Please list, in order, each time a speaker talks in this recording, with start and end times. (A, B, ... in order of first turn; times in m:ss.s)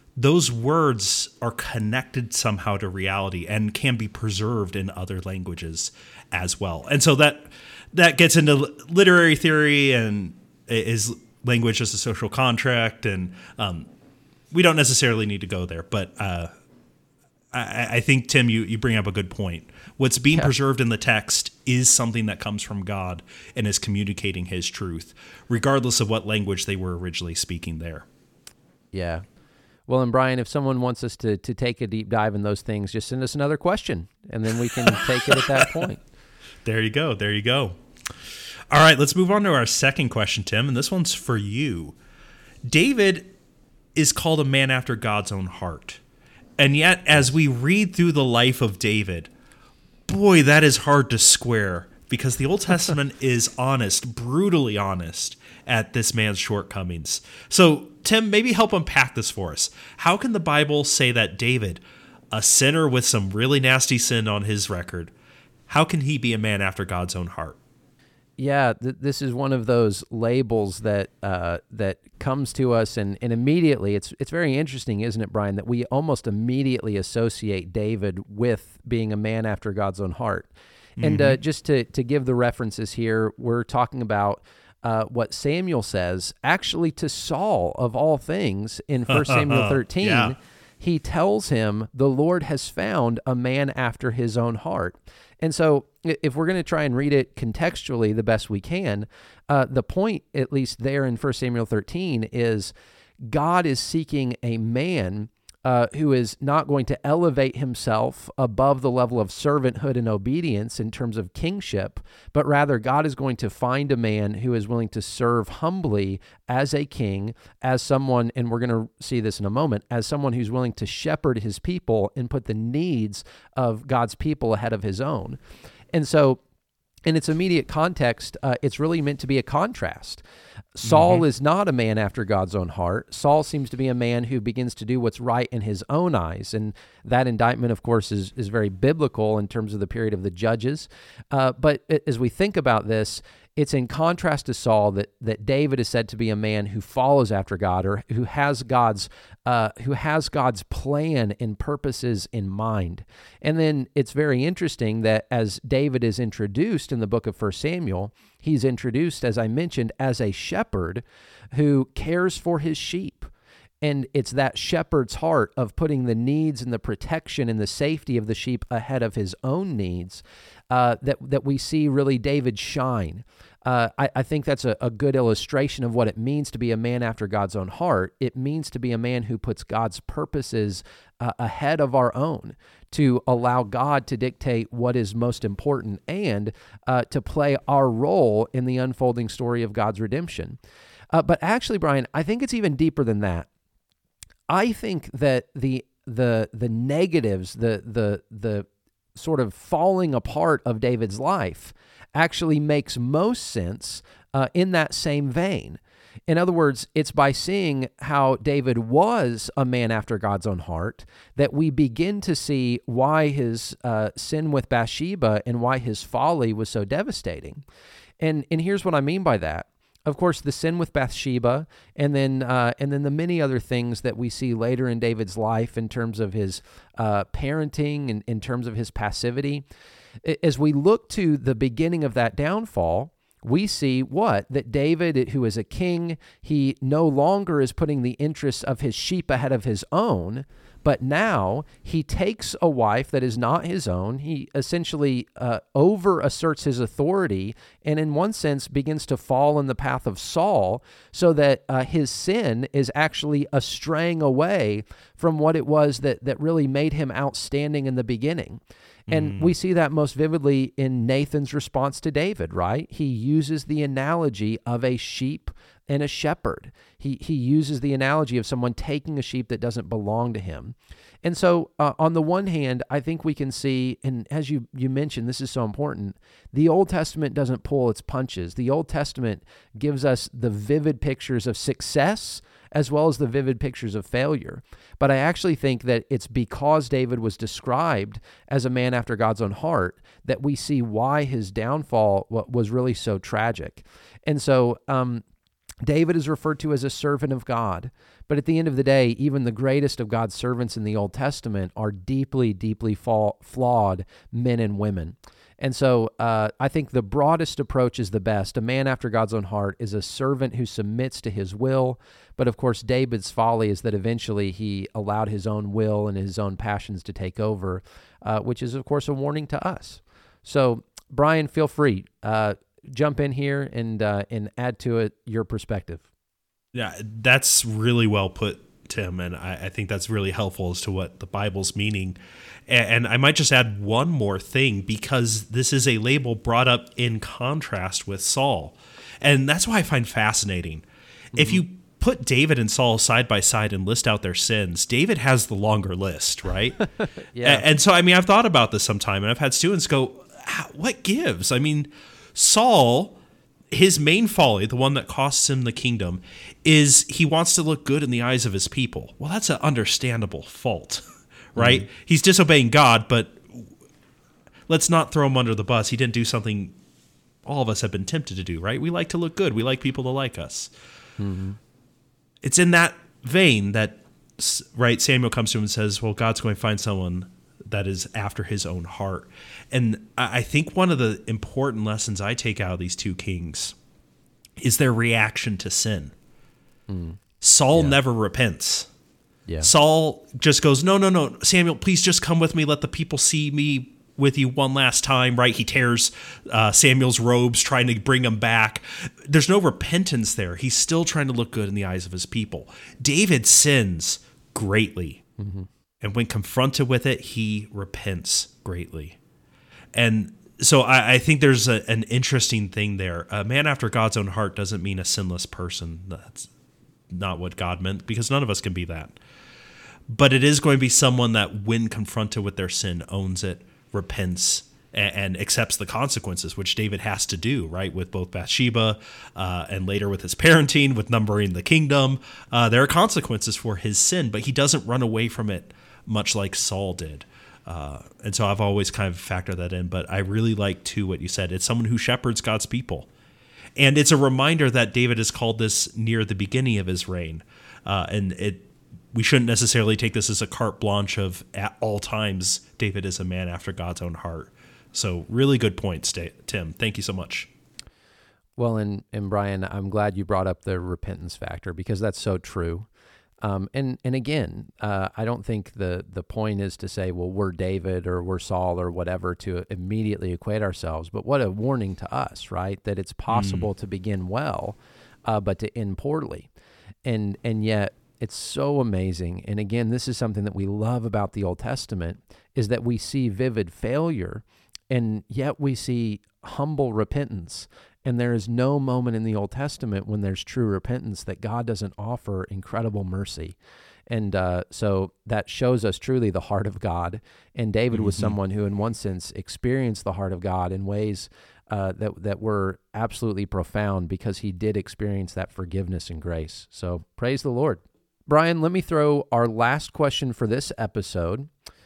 0:00.2-0:13.9 A
0:14.5-0:16.5 A
0:17.5-0:28.1 A
0:28.9-0:29.2 B
0:29.9-0:36.0 B
0:34.8-0:35.7 A
0:36.6-0:37.8 A
0:38.7-0:42.0 A
0:42.6-0:43.3 A
0:44.0-0:46.0 A
0:46.6-0:49.3 A
0:50.1-1:01.8 A
1:02.3-1:05.1 A
1:05.7-1:07.6 A
1:08.4-1:20.5 B
1:21.0-1:21.4 A
1:21.0-1:42.7 B
1:29.1-1:30.3 A
1:43.2-2:05.4 B
2:05.9-2:06.4 B
2:07.1-2:10.2 B
2:10.8-2:43.3 B
2:10.9-2:11.2 A
2:43.8-3:10.6 B
3:11.1-3:13.5 B
3:14.5-3:37.6 B
3:38.2-3:49.6 B
3:50.2-4:55.2 B
4:19.1-4:19.5 A
4:55.8-5:26.0 B
5:26.7-5:46.8 A
5:41.4-5:41.6 B
5:47.3-5:47.7 B
5:47.4-5:53.2 A
5:53.7-6:01.0 A
6:01.6-6:03.7 A
6:01.6-6:01.9 B
6:04.7-6:06.7 A
6:07.5-6:10.7 A
6:11.2-6:11.6 B
6:12.4-6:23.8 A
6:24.6-6:26.1 A
6:26.9-6:27.2 B
6:27.4-6:28.9 A
6:29.6-6:45.2 A
6:45.4-6:45.7 B
6:46.0-6:49.2 A
6:49.9-6:56.5 A
6:57.1-6:59.2 A
7:00.1-7:23.1 A
7:23.8-7:37.5 A
7:38.6-7:42.9 B
7:43.4-7:56.5 B
7:53.3-7:53.7 A
7:57.0-8:13.6 B
8:14.1-8:31.5 B
8:17.9-8:18.4 A